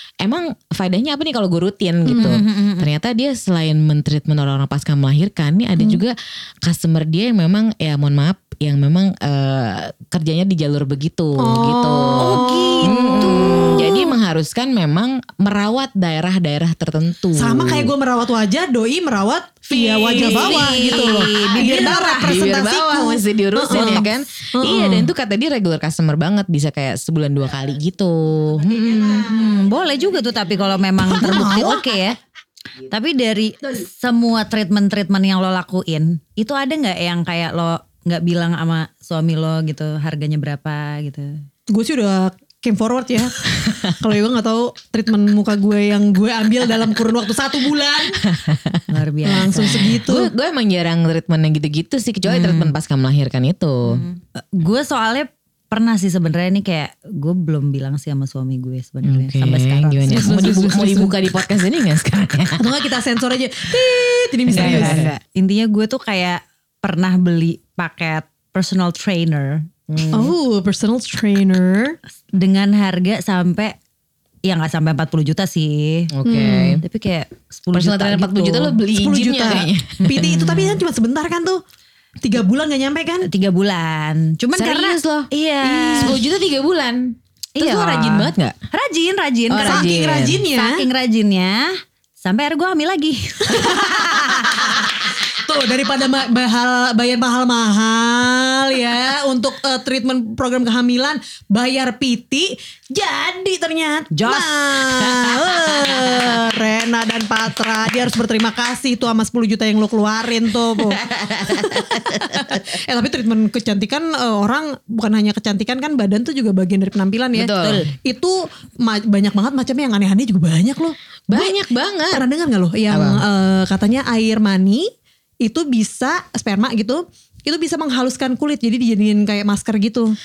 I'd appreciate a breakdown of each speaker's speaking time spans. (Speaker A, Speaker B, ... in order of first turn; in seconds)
Speaker A: 0.2-17.9, 19.7-29.4, 48.3-48.8, 49.6-54.0, 59.0-62.7, 64.5-65.1, 69.9-70.3, 76.1-76.8, 77.7-80.3, 84.5-85.3, 85.9-88.5, 89.5-90.5, 110.8-112.6, 117.3-117.8, 121.3-122.2, 122.9-123.2
Speaker B: 2.1-2.9, 12.2-14.1, 20.2-22.3, 23.7-24.0, 28.8-32.2, 32.9-41.4, 48.9-50.0, 52.2-52.7, 53.9-60.5, 64.5-69.7, 72.4-73.8, 74.5-78.8, 80.2-80.8, 83.2-86.2, 87.6-89.9, 90.5-94.8, 104.1-104.8, 117.6-117.9
Speaker C: 11.4-13.7, 17.4-25.1, 31.0-31.9, 41.7-48.2, 49.2-50.3, 60.0-61.2, 62.6-65.1, 70.1-72.0, 78.9-81.6, 82.2-83.3, 85.6-86.2, 89.6-90.9, 93.5-121.6, 122.1-124.9, 125.4-130.2